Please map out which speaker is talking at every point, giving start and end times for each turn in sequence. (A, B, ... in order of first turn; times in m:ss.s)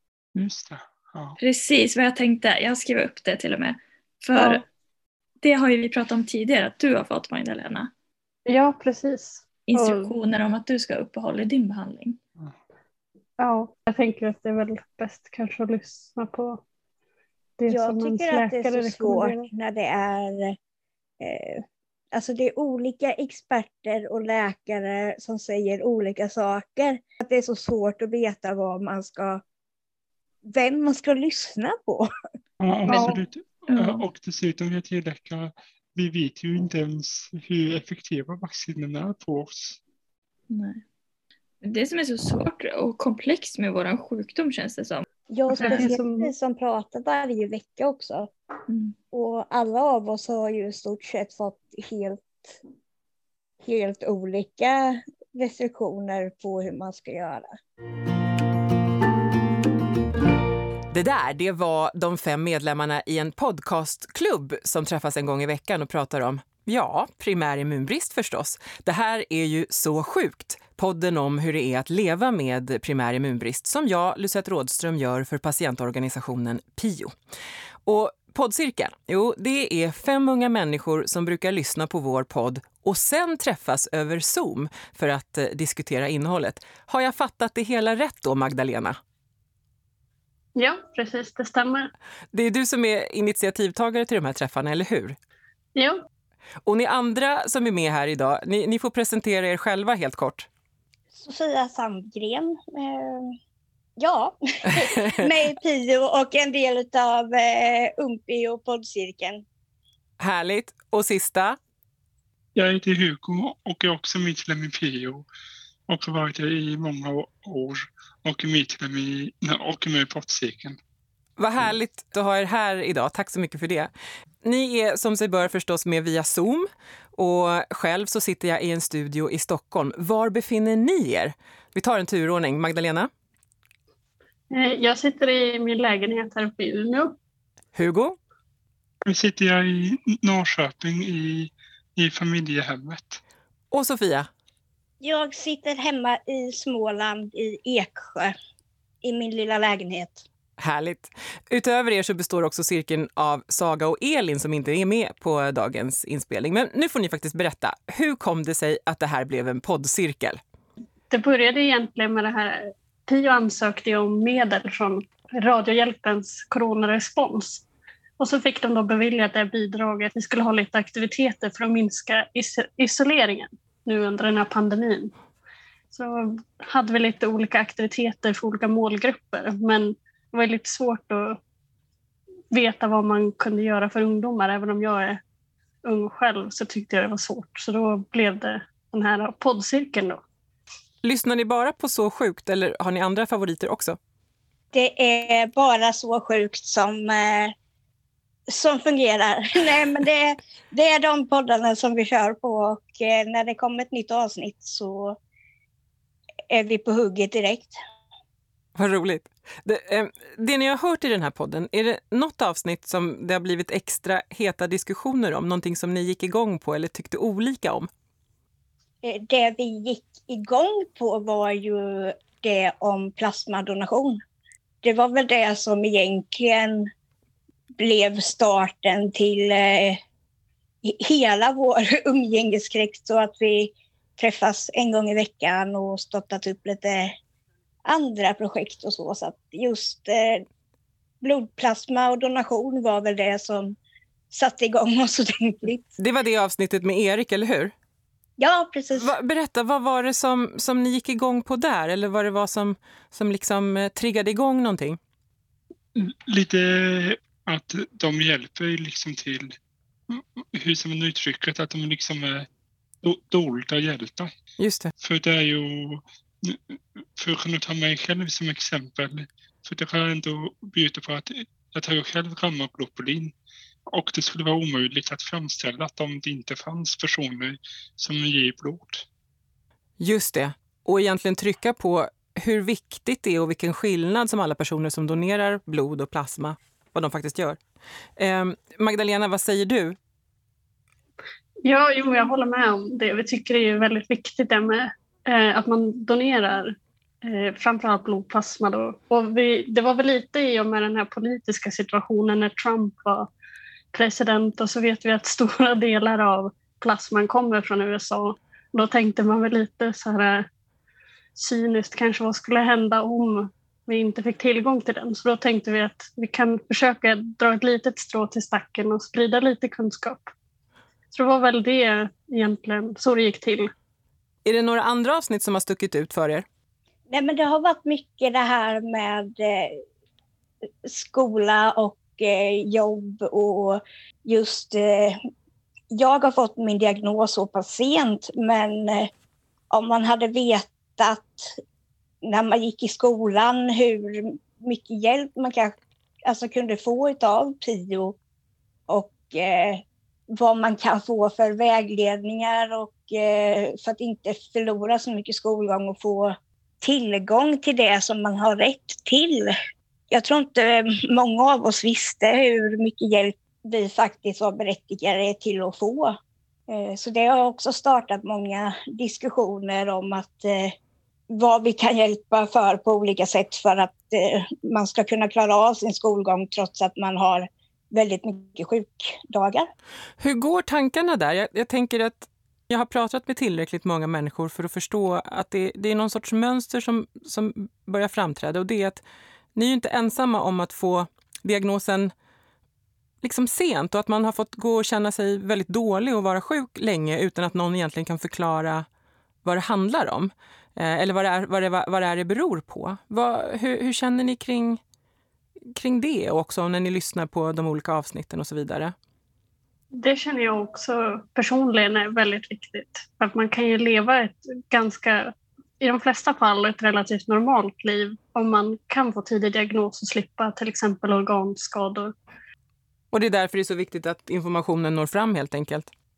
0:00.4-0:01.4 A
0:01.4-0:04.6 B
0:05.4-0:07.9 B
0:08.5-0:10.1 C
0:09.7-0:12.2 B
0:13.4-0:16.6 C
0:17.6-0:19.4 C
0:17.7-0:20.6 D
0:21.2-0:29.4 D
0:30.4-0:32.1 D
0:32.6-0:39.8 A
0:32.9-0:33.2 C
0:33.7-0:34.0 B
0:40.5-0:40.8 B
0:41.6-0:45.0 B
0:45.3-0:48.3 D
0:45.6-0:46.3 C
0:45.6-0:45.9 B
0:49.1-0:52.6 D
0:53.6-0:57.6 D
1:00.9-1:17.1 E
1:17.8-1:29.0 E
1:30.6-1:31.9 C
1:32.3-1:35.2 E
1:35.8-1:36.0 C
1:36.6-1:40.5 E
1:41.1-1:43.3 D
1:44.0-1:49.4 D
1:44.8-1:45.1 E
1:50.2-1:51.6 E
1:52.6-1:55.3 A
1:55.9-2:00.8 A
2:01.4-2:03.9 E
2:04.4-2:13.1 E
2:14.5-2:17.2 C
2:17.8-2:18.2 E
2:19.0-2:23.2 A
2:23.7-2:24.3 E
2:25.0-2:28.3 D
2:29.0-2:30.2 D
2:30.6-2:40.4 E
2:41.1-2:47.6 C
2:48.2-2:55.1 C
2:55.9-3:01.4 C
3:02.5-3:05.2 C
3:05.8-3:10.2 C
3:11.0-3:14.0 E
3:14.7-3:17.6 D
3:18.5-3:25.2 D
3:26.5-3:27.8 D
3:28.8-3:37.9 E
3:39.0-3:44.2 D
3:44.8-3:46.9 D
3:47.8-3:50.0 D
3:50.8-3:57.2 D
3:57.9-4:00.4 D
4:01.2-4:03.8 D
4:04.3-4:05.9 D
4:06.0-4:07.7 E
4:08.4-4:09.1 D
4:08.9-4:15.0 E
4:15.9-4:19.6 A
4:20.1-4:22.5 A
4:23.0-4:24.3 A
4:24.6-4:24.9 E
4:25.0-4:33.3 A
4:33.9-4:39.1 A
4:40.0-4:47.6 E
4:48.2-4:50.0 E
4:51.7-5:03.3 C
5:03.9-5:10.4 C
5:11.4-5:20.3 C
5:21.1-5:23.7 C
5:24.4-5:26.4 E
5:27.1-5:29.8 D
5:30.8-5:35.2 D
5:35.9-5:39.1 D
5:39.7-5:41.6 D
5:42.2-5:48.2 D
5:48.9-5:59.5 D
6:00.1-6:10.8 D
6:11.3-6:19.7 D
6:20.2-6:29.0 E
6:29.6-6:32.1 E
6:33.2-6:38.9 E
6:39.4-6:44.8 E
6:45.7-6:48.9 E
6:49.9-7:02.1 C
7:03.1-7:05.9 E